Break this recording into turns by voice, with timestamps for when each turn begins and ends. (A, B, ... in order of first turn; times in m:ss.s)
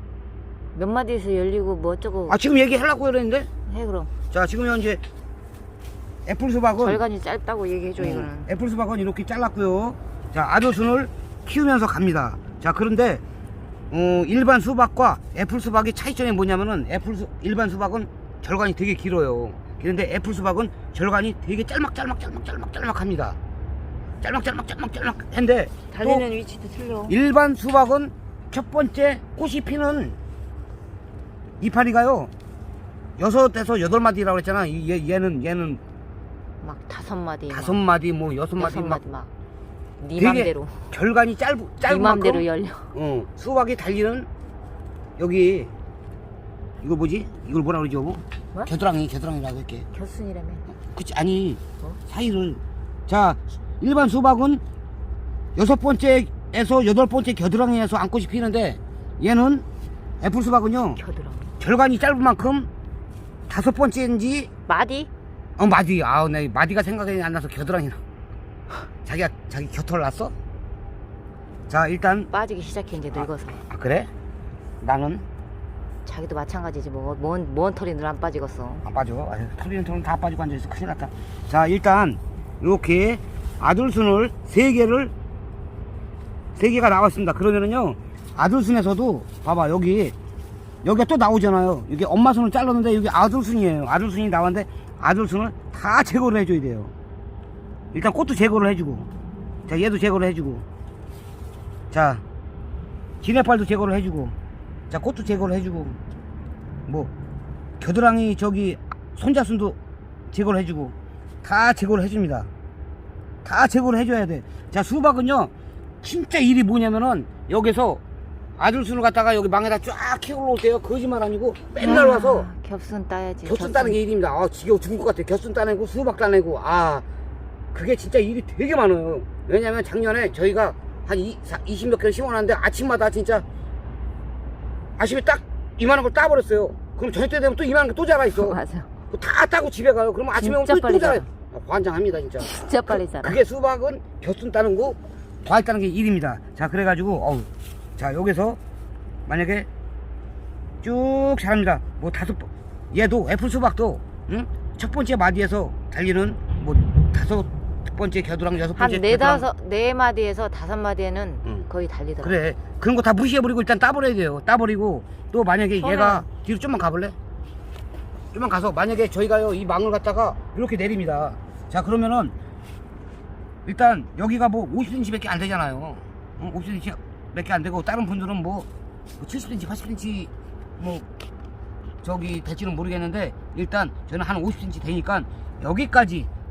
0:00.7-0:02.4 A
0:02.3-0:03.5 B
0:03.7-0:04.1 A
0:04.3-0:05.0 B
0:06.3-0:07.0 B
0:06.8-0:08.5 A
0:08.0-0:13.2 B
0:13.9-0:23.4 B
0:24.2-0:26.2 B
0:25.9-0:27.2 A
0:27.1-0:30.2 B
0:31.6-0:32.3 B
0:33.2-0:35.8 B
0:36.6-0:37.8 A
0:37.5-0:39.0 B
0:38.6-0:39.3 A
0:40.0-0:40.8 A
0:40.2-0:44.3 B
0:41.8-0:42.9 A
0:45.2-0:45.7 B
0:46.8-0:49.9 B
0:49.9-0:50.6 A
0:50.7-0:54.6 B
0:55.6-0:59.6 B
1:00.2-1:01.0 B
1:01.0-1:01.5 A
1:01.6-1:02.7 B
1:03.5-1:04.5 B
1:04.7-1:05.1 A
1:05.6-1:08.0 B
1:09.0-1:10.3 B
1:11.7-1:12.3 B
1:12.3-1:13.6 A
1:13.1-1:14.1 B
1:14.8-1:15.3 B
1:16.0-1:18.8 A
1:18.8-1:25.1 B
1:26.6-1:30.2 B
1:30.8-1:36.9 B
1:37.9-1:39.1 B
1:39.7-1:40.6 B
1:41.9-1:42.2 B
1:43.2-1:44.4 B
1:44.9-1:46.0 B
1:47.8-1:49.8 B
1:50.3-1:52.5 B
1:53.4-1:55.5 B
1:56.0-1:58.0 B
1:58.6-2:02.5 B
2:01.8-2:04.0 A
2:03.4-2:07.0 B
2:07.7-2:13.4 B
2:15.0-2:18.6 B
2:18.3-2:18.9 A
2:19.1-2:28.6 B
2:20.4-2:21.3 A
2:22.4-2:23.4 A
2:29.3-2:29.7 B
2:30.8-2:39.5 B
2:38.8-2:42.4 A
2:42.2-2:47.2 B
2:45.8-2:46.2 A
2:48.3-2:52.3 B
2:53.7-2:58.7 B
2:59.2-3:01.1 B
3:02.0-3:06.3 B